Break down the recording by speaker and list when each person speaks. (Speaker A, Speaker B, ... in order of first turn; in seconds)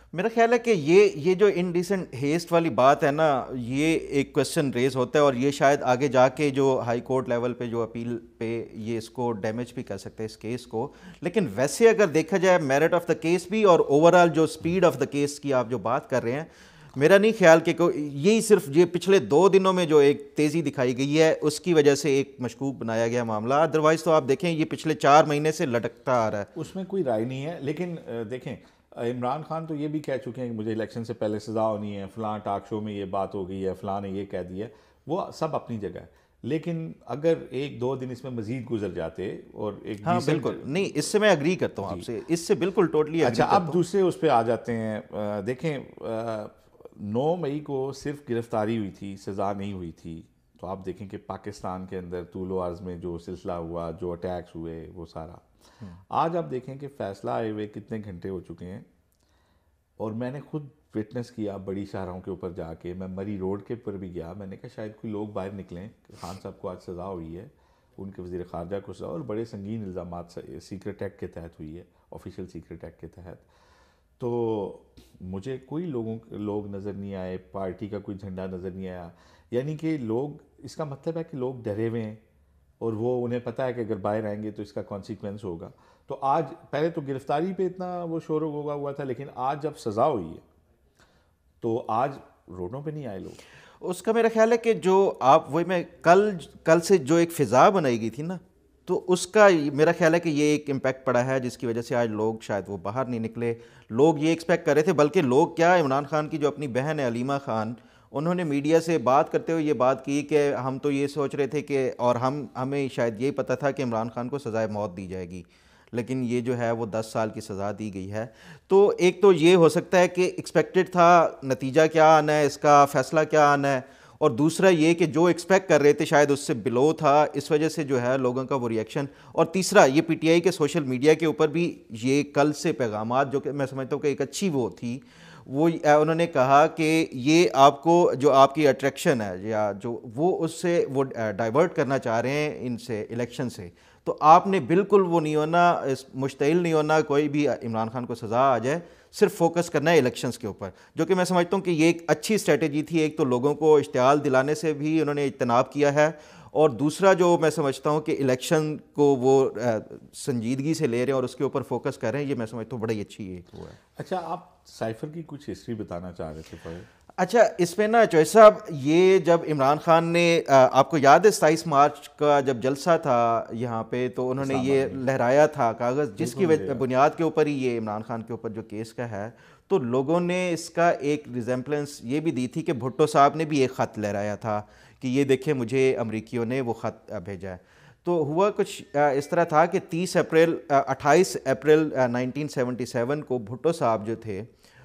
Speaker A: 0.1-26.5, 40.0-43.8, 93.8-163.8, 167.2-194.5
Speaker B: 26.5-41.0, 43.2-55.5, 56.1-58.9, 60.0-73.5, 74.2-82.2, 82.8-90.4, 91.6-93.4, 163.9-166.9, 174.4-175.0, 176.2-176.8